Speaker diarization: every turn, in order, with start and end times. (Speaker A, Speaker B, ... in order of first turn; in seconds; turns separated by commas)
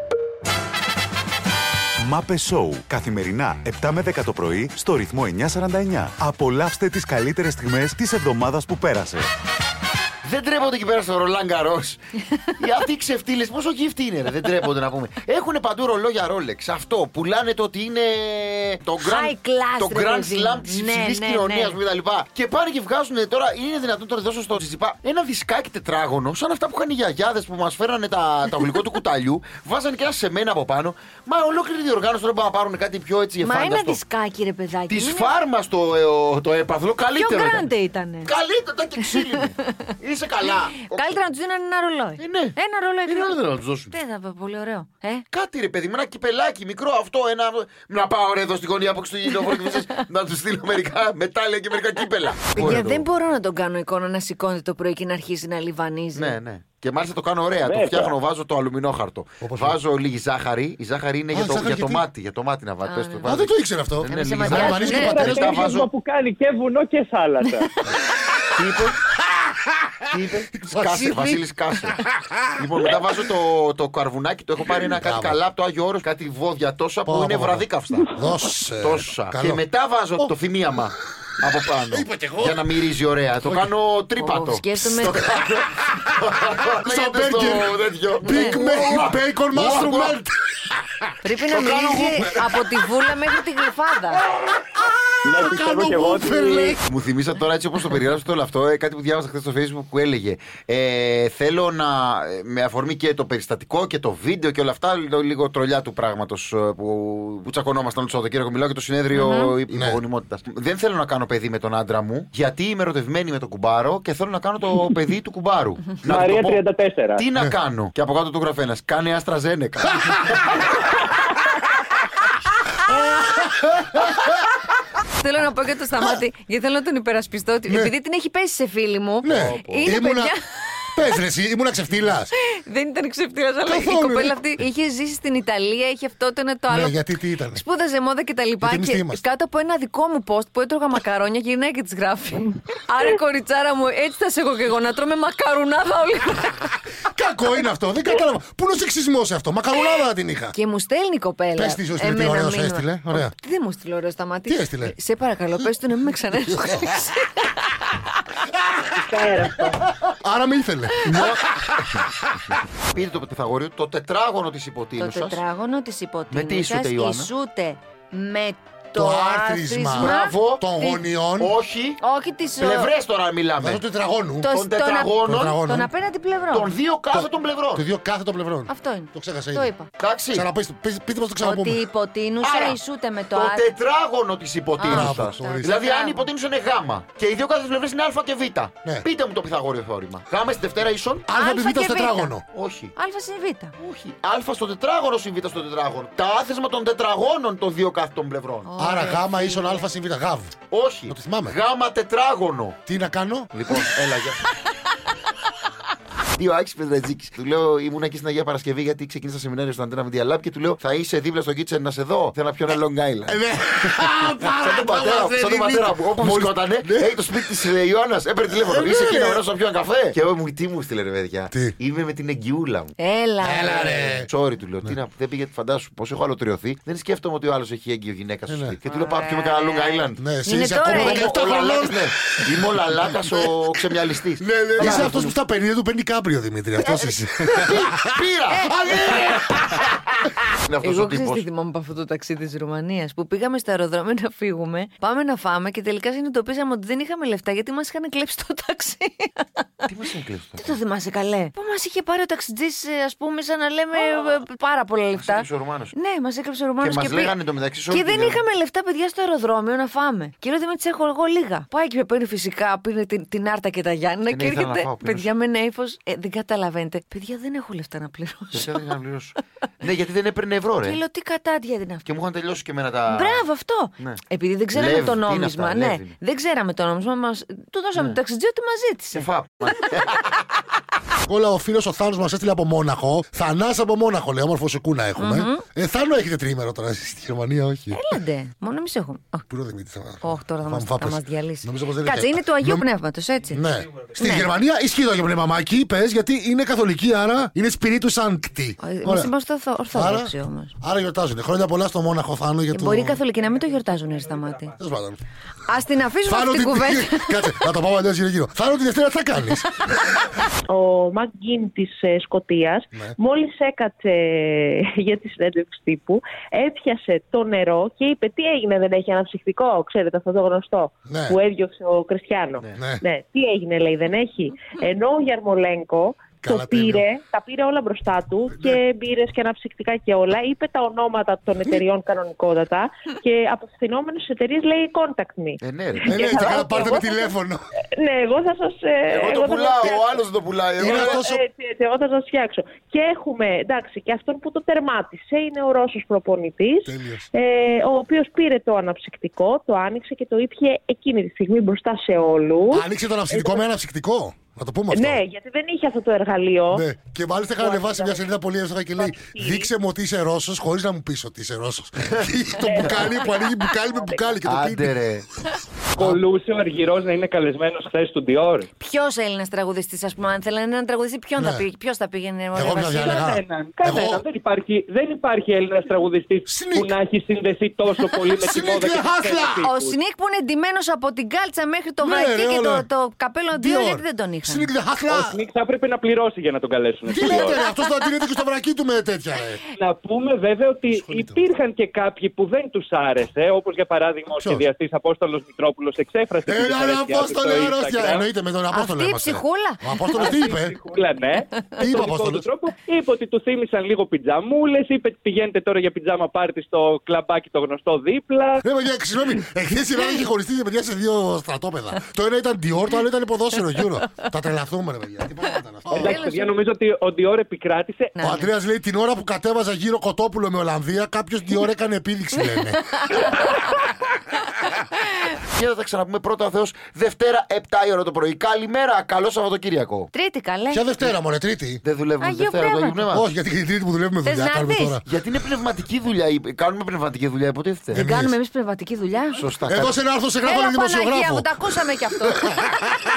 Speaker A: 2.0-9.3, Speaker B: 10.2-12.0, Speaker B: 12.6-34.0, Speaker C: 19.0-21.8, Speaker C: 33.4-35.3, Speaker B: 34.9-37.7, Speaker C: 37.1-38.3, Speaker B: 38.2-41.2, Speaker C: 39.3-39.9, Speaker C: 40.5-43.4, Speaker B: 42.2-43.9, Speaker C: 43.9-45.2, Speaker B: 45.3-53.1, Speaker C: 52.5-56.4, Speaker B: 56.1-65.9, Speaker D: 57.6-58.2, Speaker E: 59.4-59.8, Speaker E: 61.3-62.1, Speaker C: 62.8-63.3, Speaker E: 63.2-65.7, Speaker D: 64.5-67.7, Speaker C: 64.5-65.8, Speaker B: 68.5-69.0, Speaker B: 70.1-72.0, Speaker E: 70.5-72.6, Speaker B: 72.6-78.1, Speaker E: 74.8-75.4, Speaker E: 77.0-79.6, Speaker B: 78.8-90.2, Speaker E: 81.9-82.8, Speaker E: 83.4-83.7, Speaker C: 84.2-85.3, Speaker E: 85.0-91.1, Speaker C: 88.3-88.6, Speaker C: 91.2-94.2, Speaker B: 91.5-92.4, Speaker E: 94.4-96.8, Speaker D: 95.2-96.7, Speaker B: 96.3-116.6, Speaker C: 109.1-109.5, Speaker E: 109.7-110.0, Speaker D: 116.0-117.2, Speaker B: 117.2-120.1, Speaker E: 119.9-120.6, Speaker E: 122.9-124.3, Speaker C: 125.1-130.9, Speaker E: 127.7-127.9, Speaker E: 129.2-130.3, Speaker B: 129.3-129.9, Speaker E: 130.9-132.3, Speaker C: 132.3-136.9, Speaker E: 133.7-134.4, Speaker E: 136.7-137.6, Speaker C: 137.5-146.8, Speaker E: 138.6-139.2, Speaker E: 147.0-150.5, Speaker C: 150.5-157.8, Speaker E: 151.6-153.3, Speaker E: 154.5-154.9, Speaker E: 156.4-157.1, Speaker E: 158.7-162.6, Speaker D: 159.0-159.8, Speaker B: 161.0-161.4, Speaker B: 162.8-165.4, Speaker C: 165.0-171.0, Speaker B: 166.3-167.3, Speaker E: 168.9-171.5, Speaker B: 169.9-170.6, Speaker B: 171.4-172.0, Speaker C: 172.0-172.9, Speaker B: 172.6-173.8, Speaker E: 173.6-174.5, Speaker C: 174.4-176.7, Speaker B: 174.5-175.6, Speaker E: 175.2-175.9, Speaker B: 176.5-177.8, Speaker E: 177.1-179.7, Speaker C: 178.7-179.9, Speaker B: 180.0-180.5, Speaker E: 180.3-181.8, Speaker C: 181.4-183.7, Speaker B: 182.4-182.8, Speaker B: 183.3-191.3, Speaker C: 184.8-186.3, Speaker E: 184.8-185.8, Speaker E: 191.3-192.4, Speaker C: 191.3-192.4, Speaker B: 192.5-192.9, Speaker C: 192.9-193.7, Speaker B: 193.8-198.7, Speaker C: 198.6-199.9, Speaker E: 198.8-200.6, Speaker B: 200.7-202.8, Speaker E: 201.1-201.6, Speaker E: 202.9-203.5, Speaker B: 203.5-204.4, Speaker B: 206.3-213.4, Speaker E: 213.3-217.5, Speaker B: 214.6-222.9, Speaker E: 218.5-219.4, Speaker E: 221.5-221.8, Speaker C: 223.0-224.2, Speaker E: 223.4-224.3, Speaker B: 224.2-230.2, Speaker E: 228.5-228.8, Speaker C: 228.8-231.3, Speaker E: 230.2-233.5, Speaker B: 230.8-235.3, Speaker E: 234.4-239.8, Speaker B: 236.8-239.2, Speaker C: 238.5-239.1, Speaker B: 240.5-241.4, Speaker C: 240.8-249.7, Speaker B: 249.8-250.8, Speaker C: 250.6-257.4, Speaker B: 255.1-255.9, Speaker B: 256.8-258.4, Speaker C: 257.9-268.9, Speaker B: 264.3-265.3, Speaker B: 268.5-271.0, Speaker C: 270.8-272.0, Speaker B: 272.0-273.5, Speaker C: 273.1-279.3, Speaker B: 274.7-276.2, Speaker B: 279.1-280.3, Speaker E: 281.2-288.2, Speaker C: 285.2-285.6, Speaker C: 287.9-289.4, Speaker E: 289.5-292.9, Speaker C: 290.2-293.6, Speaker E: 293.5-299.3, Speaker C: 294.2-294.5, Speaker C: 298.8-300.7, Speaker E: 299.9-303.2, Speaker C: 302.7-304.8, Speaker E: 304.8-305.2, Speaker C: 305.7-307.7, Speaker E: 306.2-309.7, Speaker F: 310.6-337.3, Speaker E: 321.1-321.3, Speaker E: 322.8-323.0, Speaker E: 326.4-327.1, Speaker B: 335.6-336.2, Speaker E: 336.1-337.6, Speaker F: 337.9-340.2, Speaker B: 339.1-341.2, Speaker E: 340.8-341.4, Speaker F: 340.9-353.6, Speaker E: 346.9-347.3, Speaker E: 352.7-355.2, Speaker F: 354.9-356.8, Speaker E: 356.7-364.9, Speaker F: 357.6-358.2, Speaker F: 359.0-359.7, Speaker F: 362.6-364.2, Speaker B: 364.4-365.2, Speaker E: 365.9-366.2, Speaker D: 365.9-368.7, Speaker C: 368.8-373.3, Speaker E: 371.4-371.7, Speaker E: 372.5-374.2, Speaker D: 372.9-380.0, Speaker E: 376.5-376.9, Speaker E: 378.4-379.7, Speaker C: 379.6-384.7, Speaker E: 382.0-382.9, Speaker E: 383.5-385.4, Speaker D: 385.1-387.6, Speaker E: 387.1-389.6, Speaker D: 389.8-398.2, Speaker E: 390.9-391.4, Speaker E: 394.4-394.7, Speaker E: 396.4-400.8, Speaker C: 398.7-400.2, Speaker D: 400.1-408.6, Speaker E: 401.8-402.5, Speaker E: 408.6-416.2, Speaker D: 415.9-418.1, Speaker C: 416.0-416.5, Speaker C: 418.1-418.5, Speaker E: 418.2-423.3, Speaker C: 422.4-423.3, Speaker B: 425.5-430.1, Speaker C: 430.1-430.8, Speaker E: 430.7-431.8, Speaker B: 431.8-433.3, Speaker C: 432.2-433.0, Speaker E: 433.1-435.0, Speaker C: 434.2-435.0, Speaker B: 435.1-438.0, Speaker E: 437.9-438.3, Speaker C: 437.9-439.4, Speaker B: 439.4-440.0, Speaker E: 439.6-441.5, Speaker C: 440.4-442.7